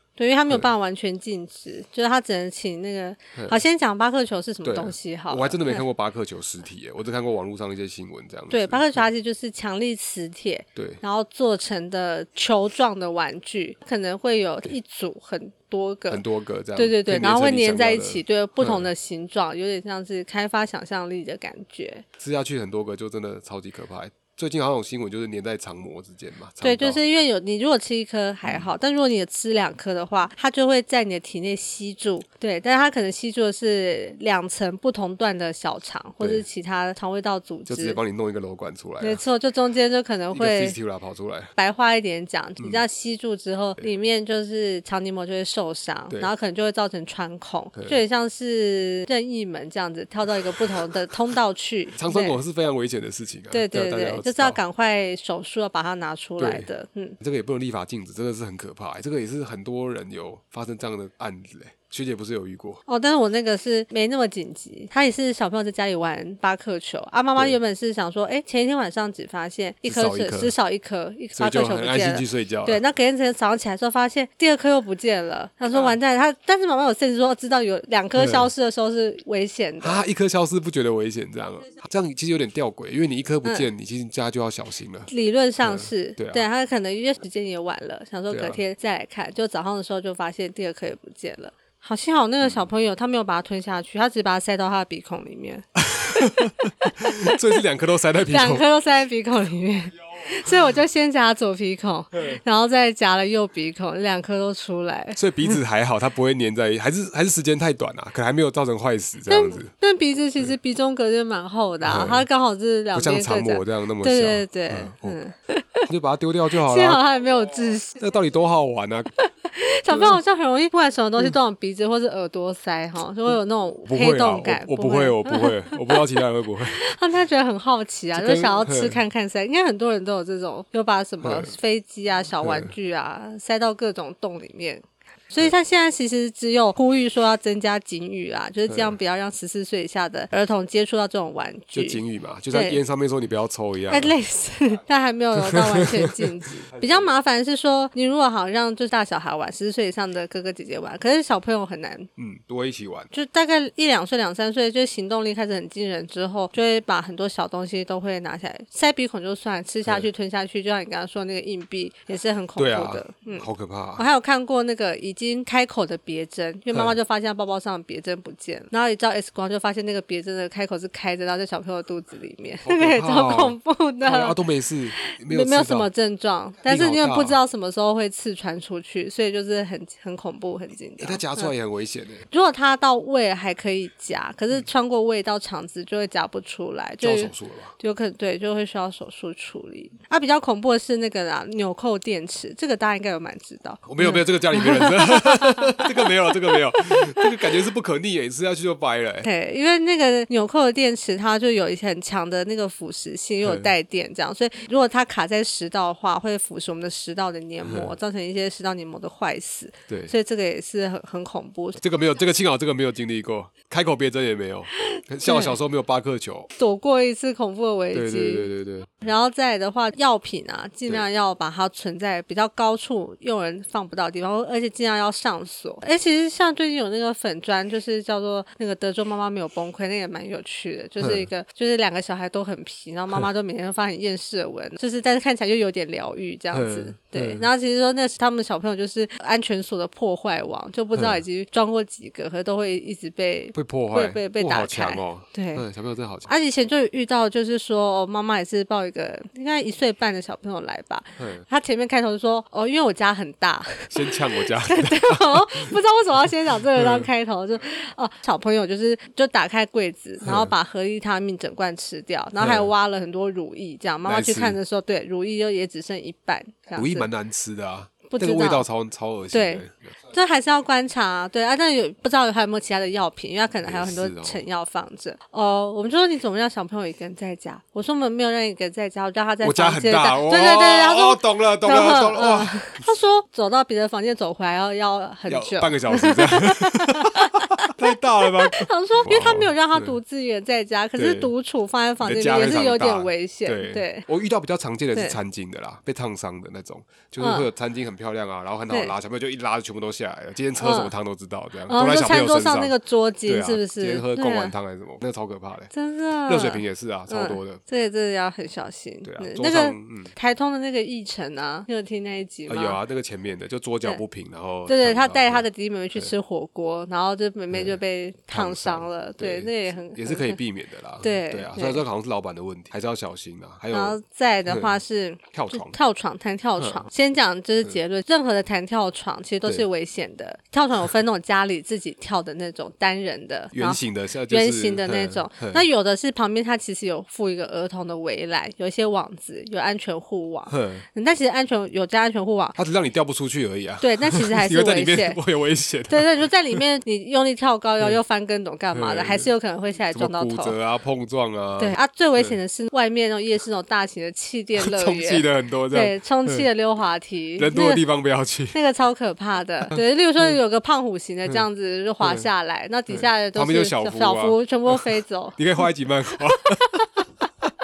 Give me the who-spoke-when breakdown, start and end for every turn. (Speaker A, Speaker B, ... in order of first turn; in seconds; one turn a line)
Speaker A: 0.2-5.8
Speaker B: 4.6-9.0
Speaker A: 8.5-16.2
Speaker B: 10.8-11.0
Speaker B: 16.1-18.9
Speaker A: 16.8-22.1
Speaker B: 22.2-27.0
Speaker A: 26.6-38.0
Speaker B: 28.4-28.7
Speaker B: 36.2-36.5
Speaker B: 37.7-39.2
Speaker A: 39.0-40.8
Speaker B: 40.3-41.5
Speaker A: 41.6-52.4
Speaker B: 47.8-48.0
Speaker B: 52.0-54.6
Speaker A: 53.5-57.2
Speaker B: 56.4-56.7
Speaker B: 57.2-62.8
Speaker A: 62.9-80.0
Speaker B: 69.8-70.5
Speaker B: 71.3-72.8
Speaker B: 78.2-78.5
Speaker B: 79.8-85.1
Speaker A: 85.1-97.4
Speaker B: 85.6-86.4
Speaker B: 88.3-88.6
Speaker B: 95.9-98.6
Speaker A: 98.2-105.2
Speaker B: 105.2-109.7
Speaker A: 109.3-115.9
Speaker B: 111.8-112.3
Speaker B: 112.9-115.2
Speaker B: 115.9-117.0
Speaker A: 116.5-118.0
Speaker B: 118.0-119.1
Speaker A: 119.2-126.0
Speaker B: 119.9-120.2
Speaker B: 123.8-126.8
Speaker A: 126.7-142.0
Speaker B: 128.2-129.0
Speaker B: 131.2-131.5
Speaker B: 132.4-132.7
Speaker B: 138.7-139.0
Speaker B: 141.7-144.1
Speaker A: 142.5-142.8
Speaker A: 143.9-152.1
Speaker B: 145.4-147.1
Speaker B: 152.2-153.1
Speaker A: 153.1-174.4
Speaker B: 162.6-164.1
Speaker B: 172.6-175.9
Speaker A: 174.9-181.5
Speaker B: 176.7-177.4
Speaker B: 181.0-182.2
Speaker A: 182.3-197.3
Speaker B: 187.0-187.7
Speaker B: 193.9-199.3
Speaker A: 199.2-211.8
Speaker B: 203.4-203.7
Speaker B: 207.7-208.0
Speaker B: 211.8-216.5
Speaker A: 214.8-215.6
Speaker A: 216.6-245.7
Speaker B: 217.9-218.9
Speaker B: 231.0-231.3
Speaker B: 236.5-237.5
Speaker B: 240.9-241.2
Speaker B: 243.5-246.3
Speaker A: 246.3-267.1
Speaker B: 251.2-251.4
Speaker B: 253.9-255.7
Speaker B: 256.8-257.1
Speaker B: 260.2-260.5
Speaker B: 262.4-262.7
Speaker B: 264.0-264.6
Speaker B: 266.8-269.9
Speaker A: 268.1-268.7
Speaker A: 269.3-294.1
Speaker B: 273.6-274.4
Speaker B: 279.4-282.9
Speaker B: 285.3-290.0
Speaker B: 291.0-291.3
Speaker B: 292.0-302.8
Speaker A: 297.2-297.5
Speaker A: 300.6-300.9
Speaker A: 301.7-304.5
Speaker B: 303.3-305.7
Speaker A: 305.7-312.8
Speaker B: 306.3-307.6
Speaker B: 309.0-310.1
Speaker B: 312.5-316.1
Speaker A: 314.7-320.4
Speaker B: 317.5-317.8
Speaker B: 318.3-324.8
Speaker A: 321.0-321.8
Speaker A: 323.7-342.6
Speaker B: 325.3-325.8
Speaker B: 326.6-326.9
Speaker B: 333.5-335.7
Speaker B: 340.5-340.9
Speaker B: 342.6-346.6
Speaker A: 343.8-345.2
Speaker A: 345.9-350.6
Speaker B: 348.7-349.3
Speaker B: 349.9-352.4
Speaker A: 351.6-357.8
Speaker B: 354.6-356.5
Speaker B: 357.4-358.6
Speaker A: 358.5-365.4
Speaker B: 359.7-360.4
Speaker B: 362.0-362.3
Speaker B: 362.9-364.8
Speaker B: 365.4-366.9
Speaker A: 366.4-366.8